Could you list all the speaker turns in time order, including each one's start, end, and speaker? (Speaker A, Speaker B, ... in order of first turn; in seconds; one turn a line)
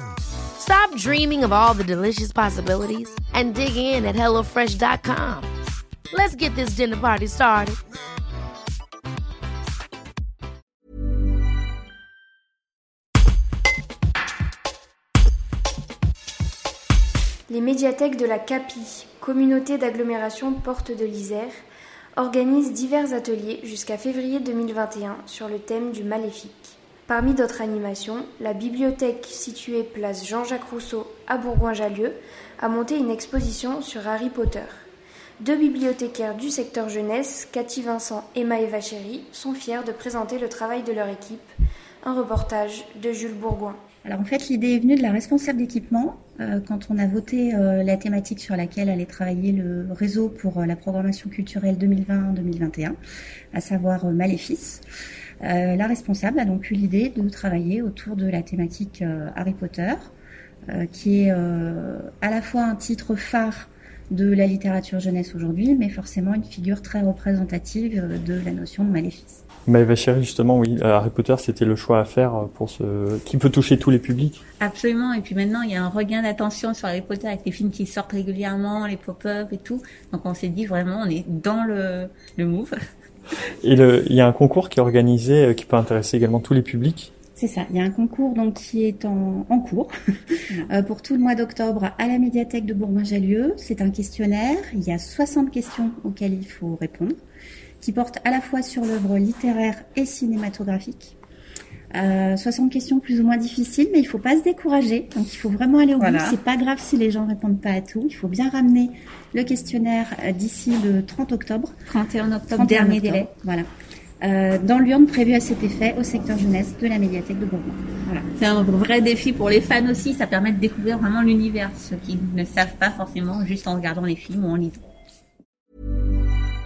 Speaker A: 0.6-5.5
Speaker A: 6.1-7.8
Speaker B: 17.5-21.5
Speaker B: 22.1-34.7
Speaker B: 35.4-41.5
Speaker B: 42.0-43.8
Speaker C: 44.0-53.0
Speaker C: 53.5-54.8
Speaker C: 55.4-60.1
Speaker C: 60.7-69.4
Speaker D: 69.7-74.4
Speaker E: 74.6-82.7
Speaker D: 83.6-87.1
Speaker C: 87.3-89.9
Speaker C: 90.7-97.2
Speaker C: 97.8-101.2
Speaker C: 101.9-111.7
Speaker E: 106.0-106.4
Speaker E: 111.9-113.2
Speaker C: 112.5-113.7
Speaker C: 114.2-118.2
Speaker E: 118.3-124.8